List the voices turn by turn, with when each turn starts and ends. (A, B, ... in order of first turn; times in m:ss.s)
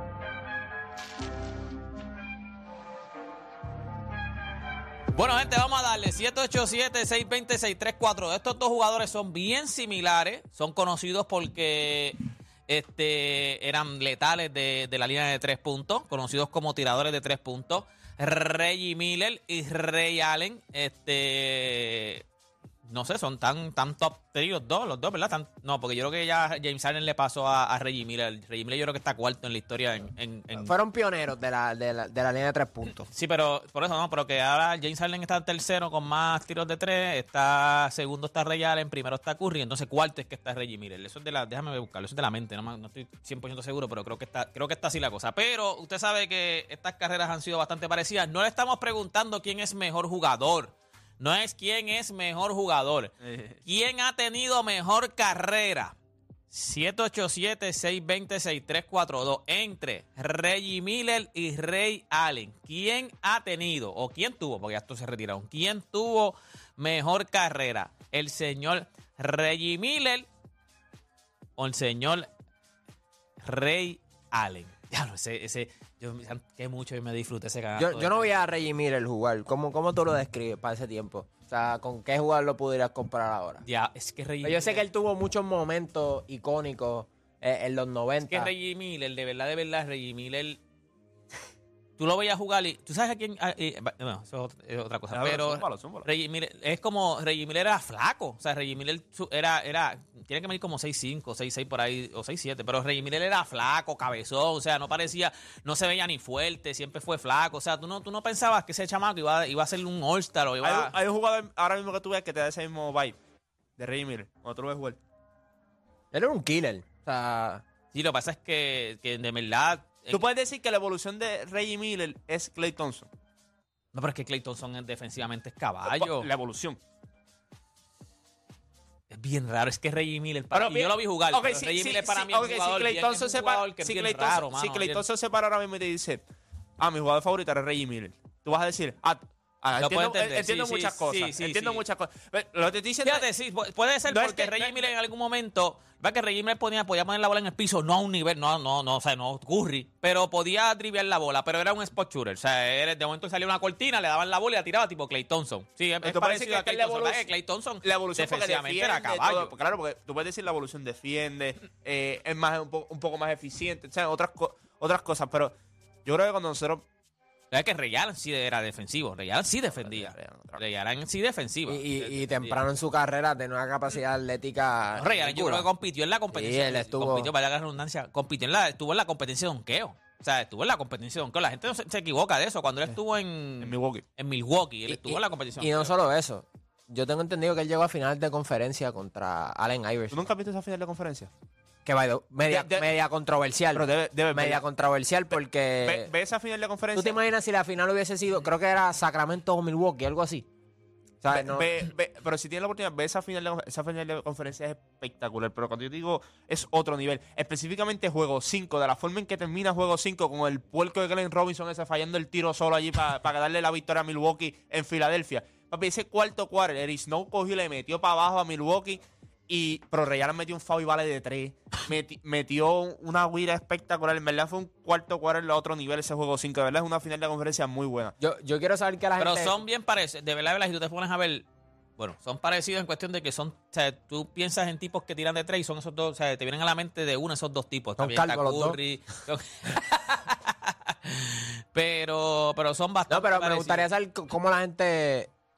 0:05.1-0:22.2 A
0:22.9-0:30.7 A
0:30.6-0:33.1 B
0:33.1-0:55.9 A
0:53.2-0:53.6 C
0:56.5-1:10.3 A
1:11.6-1:12.3 A
1:13.4-1:18.3 A
1:17.8-1:23.6 B
1:23.7-1:24.8 A
1:24.4-1:28.5 B
1:28.3-1:30.6 A
1:32.0-1:51.0 A
1:35.1-1:36.1 C
1:50.6-1:53.2 C
1:53.8-1:55.0 C
1:56.1-1:57.6 B
1:57.9-2:00.2 A
2:00.1-2:03.1 C
2:03.9-2:06.3 A
2:05.9-2:06.8 C
2:09.1-2:15.0 A
2:10.5-2:16.2 C
2:16.8-2:23.3 C
2:19.8-2:21.8 A
2:23.0-2:39.5 A
2:24.1-2:24.8 C
2:36.0-2:37.3 C
2:37.8-2:45.5 C
2:46.0-2:46.8 C
2:47.5-2:52.6 A
2:49.7-2:50.6 C
2:51.7-2:55.7 B
2:55.0-3:05.9 A
2:56.3-2:57.3 B
3:03.6-3:04.0 C
3:04.9-3:10.2 B
3:10.1-3:11.3 C
3:11.8-3:16.1 B
3:12.5-3:12.8 C
3:13.8-3:14.6 C
3:15.8-3:17.2 C
3:17.0-3:20.5 B
3:21.2-3:21.7 B
3:21.3-3:48.2 C
3:48.2-3:49.6 B
3:49.2-3:51.5 A
3:52.0-4:03.9 A
3:58.0-3:58.8 B
4:03.1-4:05.3 B